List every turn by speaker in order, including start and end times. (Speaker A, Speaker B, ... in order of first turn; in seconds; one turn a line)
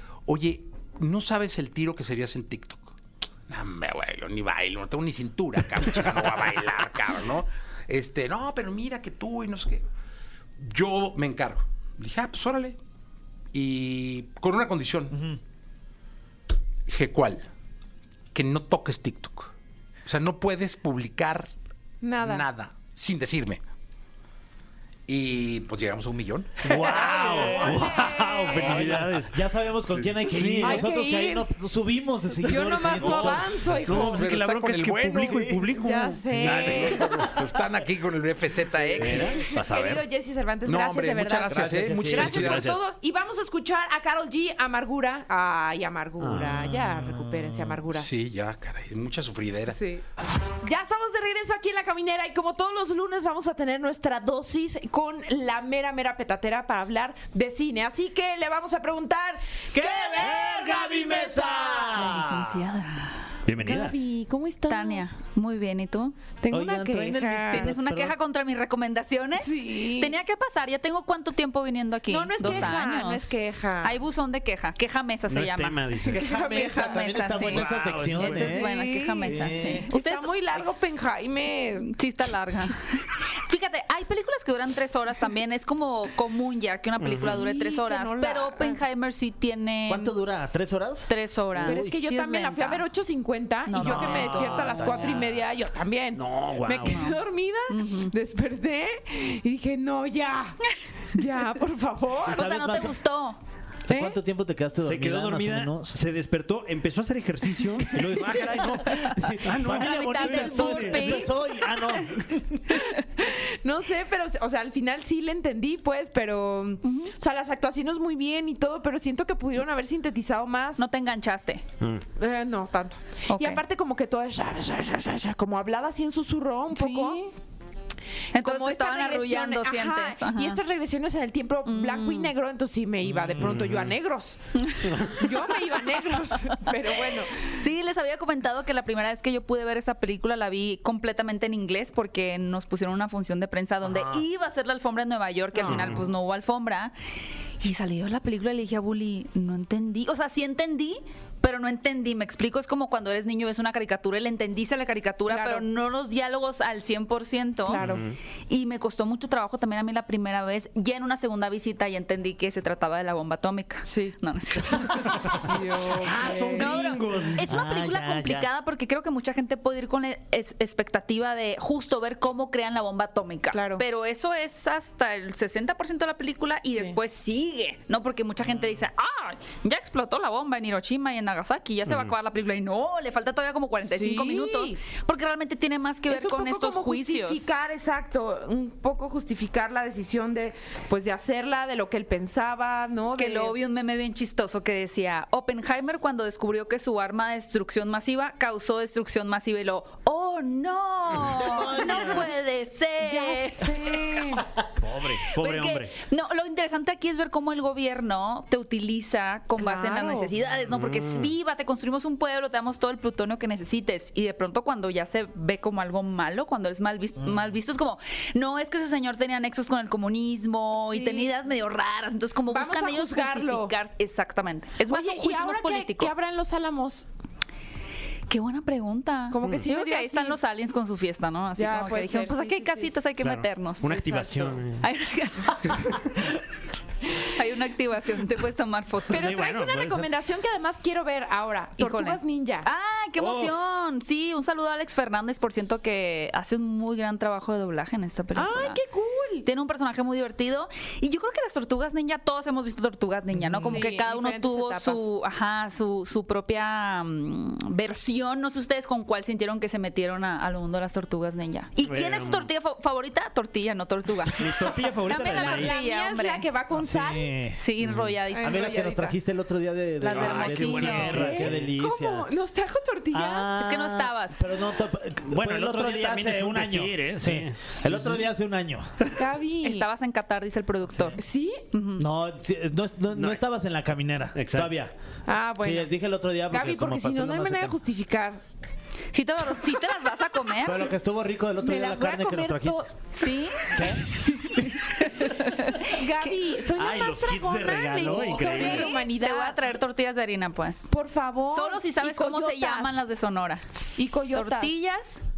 Speaker A: 0.3-9.8
Speaker A: 10.6-12.8
Speaker A: 13.5-15.2
Speaker A: 16.9-17.5
Speaker A: 18.3-19.5
Speaker A: 20.1-21.5
Speaker B: 22.0-22.4
Speaker A: 22.2-23.6
Speaker A: 25.1-27.2
Speaker C: 26.6-29.4
Speaker D: 26.7-34.3
Speaker B: 26.9-28.9
Speaker A: 28.5-29.0
Speaker C: 30.3-30.8
Speaker B: 30.6-31.5
Speaker B: 32.4-34.2
Speaker A: 32.8-35.7
Speaker C: 33.0-37.2
Speaker D: 35.2-35.6
Speaker B: 35.7-37.1
Speaker A: 36.3-39.4
Speaker C: 39.0-40.1
Speaker B: 39.2-48.1
Speaker A: 40.6-42.8
Speaker D: 41.5-42.5
Speaker C: 42.1-42.8
Speaker C: 46.2-46.8
Speaker D: 47.2-47.8
Speaker A: 47.9-49.8
Speaker B: 49.7-50.0
Speaker B: 50.6-62.1
Speaker D: 59.8-62.6
Speaker E: 61.9-63.3
Speaker C: 63.5-64.0
Speaker B: 63.6-65.1
Speaker E: 64.7-66.2
Speaker B: 66.4-67.7
Speaker D: 66.5-68.1
Speaker E: 67.5-80.3
Speaker B: 69.4-70.1
Speaker B: 72.1-74.0
Speaker C: 72.4-72.7
Speaker C: 75.3-76.3
Speaker B: 76.0-77.4
Speaker D: 76.3-78.7
Speaker C: 77.4-78.6
Speaker B: 78.2-81.9
Speaker D: 79.2-79.9
Speaker E: 81.8-90.1
Speaker C: 87.0-87.4
Speaker B: 87.2-88.8
Speaker D: 89.9-91.1
Speaker E: 91.1-92.9
Speaker C: 91.6-91.9
Speaker B: 91.6-100.6
Speaker E: 93.7-95.3
Speaker D: 93.8-95.3
Speaker C: 96.1-97.1
Speaker E: 96.8-98.1
Speaker B: 101.1-102.5
Speaker D: 102.3-103.0
Speaker E: 102.3-103.4
Speaker D: 103.9-106.0
Speaker B: 103.9-104.2
Speaker C: 104.8-111.2
Speaker D: 107.9-112.7
Speaker E: 108.9-112.1
Speaker B: 113.2-120.8
Speaker E: 116.8-117.1
Speaker E: 120.8-121.6
Speaker B: 122.2-127.3
Speaker E: 123.3-123.6
Speaker E: 126.7-127.3
Speaker E: 128.3-130.6
Speaker B: 128.3-134.4
Speaker E: 131.7-132.3
Speaker C: 133.1-133.9
Speaker E: 134.6-135.0
Speaker C: 134.9-135.2
Speaker B: 134.9-137.5
Speaker E: 137.4-146.9
Speaker B: 145.6-145.9
Speaker C: 145.7-146.1
Speaker E: 147.6-157.9
Speaker B: 155.3-155.7
Speaker B: 157.7-158.0
Speaker C: 157.8-158.2
Speaker E: 158.5-165.4
Speaker B: 163.9-164.2
Speaker B: 165.1-166.8
Speaker C: 165.8-167.5
Speaker E: 166.5-187.5
Speaker D: 167.5-168.5
Speaker B: 173.5-173.8
Speaker C: 181.9-182.1
Speaker B: 183.8-184.8
Speaker B: 186.1-193.6
Speaker E: 193.2-204.4
Speaker D: 201.4-202.3
Speaker B: 203.0-204.4
Speaker C: 204.8-205.9
Speaker E: 205.2-226.1
Speaker B: 209.6-210.3
Speaker C: 210.7-211.3
Speaker B: 220.8-221.3
Speaker B: 222.5-223.8
Speaker B: 224.9-227.1
Speaker E: 228.3-236.3
Speaker B: 229.3-230.4
Speaker B: 231.6-232.9
Speaker C: 233.2-234.9
Speaker B: 234.2-234.6
Speaker E: 237.2-239.5
Speaker C: 239.1-240.1
Speaker B: 239.1-242.7
Speaker E: 241.8-248.8
Speaker C: 243.2-243.6
Speaker B: 248.3-249.5
Speaker E: 249.4-266.5
Speaker B: 253.6-255.1
Speaker C: 261.8-262.5
Speaker C: 264.3-265.8
Speaker B: 265.1-267.5
Speaker D: 266.8-267.6
Speaker E: 267.6-268.8
Speaker C: 267.8-268.1
Speaker B: 268.3-269.2
Speaker D: 268.4-272.3
Speaker E: 270.0-271.4
Speaker C: 270.1-271.7
Speaker B: 270.6-273.5
Speaker D: 273.1-278.9
Speaker E: 273.6-274.5
Speaker C: 275.3-278.2
Speaker B: 279.1-279.9
Speaker E: 279.6-281.2
Speaker B: 281.2-281.6
Speaker E: 281.7-282.0
Speaker D: 282.0-284.9
Speaker C: 283.1-283.4
Speaker C: 284.4-284.7
Speaker B: 285.3-285.9
Speaker D: 285.6-287.8
Speaker B: 286.5-288.4
Speaker E: 289.1-290.9
Speaker D: 290.6-292.9
Speaker B: 291.6-292.9
Speaker E: 293.1-293.7
Speaker D: 293.7-294.0
Speaker E: 294.7-296.4
Speaker B: 295.8-299.6
Speaker C: 296.7-299.0
Speaker E: 298.3-300.9
Speaker B: 300.9-303.0
Speaker E: 301.5-305.2
Speaker B: 303.9-304.7